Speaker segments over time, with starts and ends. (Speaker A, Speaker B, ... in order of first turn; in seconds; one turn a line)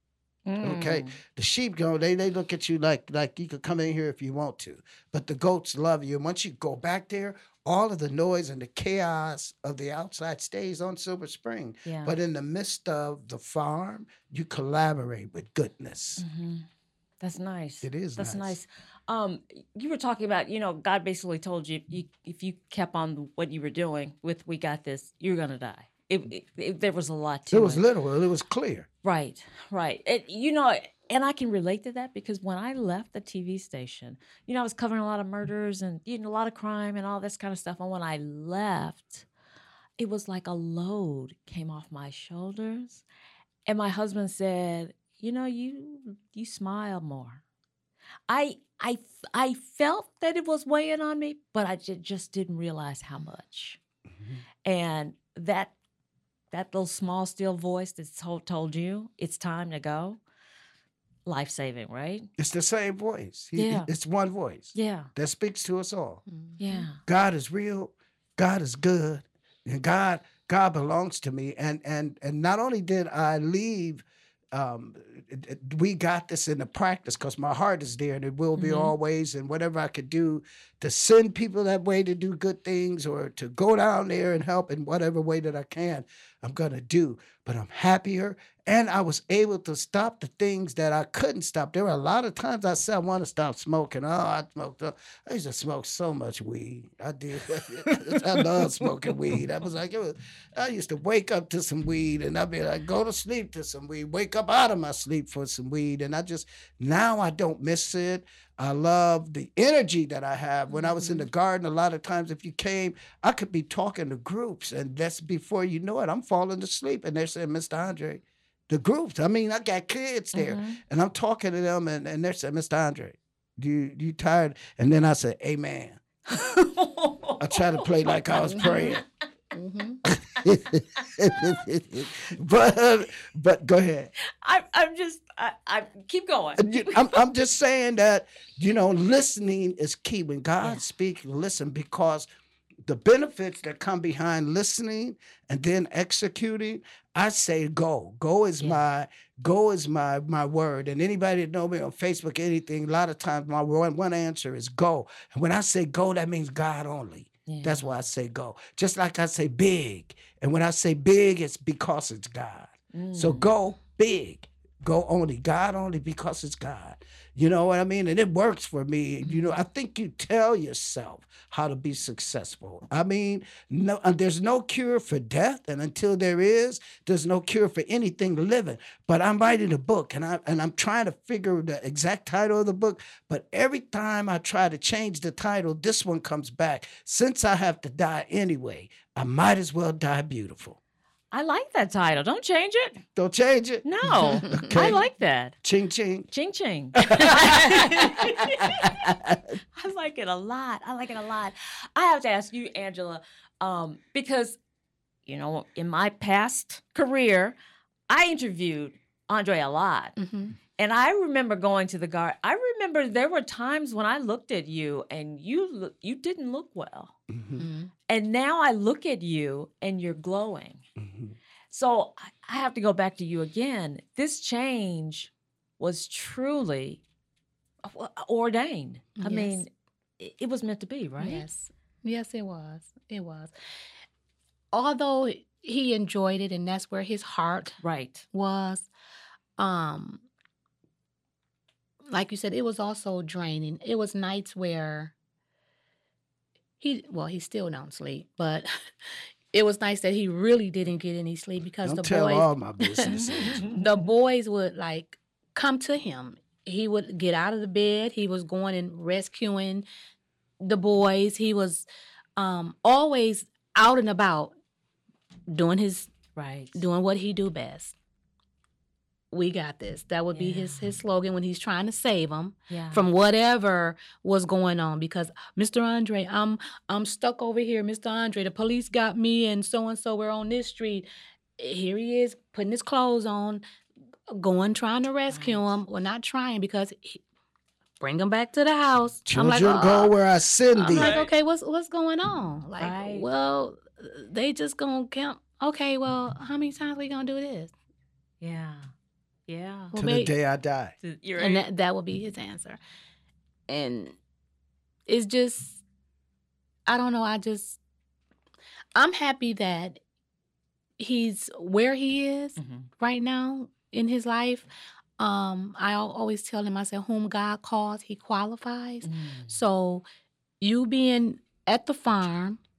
Speaker A: 0.5-1.2
Speaker B: 0.6-16.2
Speaker A: 11.8-12.1
Speaker A: 16.2-16.7
Speaker A: 17.2-27.8
Speaker B: 17.8-18.6
Speaker B: 27.5-28.9
Speaker A: 29.0-39.2
Speaker A: 40.0-43.0
Speaker A: 43.7-47.4
Speaker A: 48.3-53.8
Speaker A: 54.6-55.7
Speaker A: 56.5-60.2
Speaker A: 61.3-62.3
Speaker B: 62.4-66.2
Speaker A: 63.6-63.9
Speaker A: 64.7-65.1
Speaker C: 66.3-66.9
Speaker A: 66.6-67.0
Speaker B: 67.0-126.0
Speaker A: 78.6-78.9
Speaker A: 97.9-99.4
Speaker C: 110.8-111.2
Speaker A: 120.3-120.8
Speaker A: 126.3-129.1
Speaker B: 127.4-129.0
Speaker C: 128.5-129.0
Speaker C: 129.5-130.0
Speaker B: 130.1-134.1
Speaker A: 130.4-131.4
Speaker A: 134.4-137.2
Speaker B: 136.6-142.3
Speaker B: 142.8-190.8
Speaker A: 157.5-157.9
Speaker A: 162.9-163.5
Speaker A: 191.3-193.0
Speaker B: 193.2-195.0
Speaker A: 193.8-195.6
Speaker C: 194.4-194.7
Speaker B: 195.6-196.3
Speaker A: 196.3-199.1
Speaker B: 197.0-199.5
Speaker A: 199.8-204.6
Speaker A: 205.3-207.6
Speaker A: 208.1-210.2
Speaker C: 210.2-210.6
Speaker A: 210.8-217.2
Speaker B: 217.3-217.7
Speaker C: 217.6-217.9
Speaker A: 218.1-220.8
Speaker B: 221.0-221.3
Speaker A: 221.7-227.0
Speaker A: 227.8-231.4
Speaker C: 229.2-229.6
Speaker C: 231.2-233.5
Speaker C: 234.7-237.8
Speaker A: 237.8-238.2
Speaker C: 238.3-238.9
Speaker C: 239.6-240.2
Speaker C: 242.1-245.1
Speaker C: 246.8-248.7
Speaker C: 249.5-259.9
Speaker B: 251.8-253.7
Speaker A: 253.1-253.5
Speaker C: 260.6-264.6
Speaker C: 265.5-266.1
Speaker A: 266.4-266.8
Speaker C: 266.7-267.9
Speaker C: 269.3-281.1
Speaker A: 270.3-271.0
Speaker A: 272.7-273.1
Speaker C: 281.6-283.6
Speaker C: 284.3-287.2
Speaker A: 285.3-285.7
Speaker C: 288.0-290.1
Speaker B: 289.3-291.2
Speaker C: 290.7-297.7
Speaker A: 290.9-291.3
Speaker A: 292.8-293.3
Speaker A: 298.4-298.9
Speaker A: 299.5-299.9
Speaker C: 299.9-300.3
Speaker B: 300.0-300.9
Speaker A: 301.0-301.6
Speaker C: 301.4-302.8
Speaker C: 303.7-304.2
Speaker C: 305.1-305.8
Speaker C: 306.9-307.8
Speaker C: 308.9-310.0
Speaker C: 311.0-314.7
Speaker A: 312.6-312.9
Speaker C: 315.2-320.1
Speaker A: 319.0-319.6
Speaker C: 320.6-322.6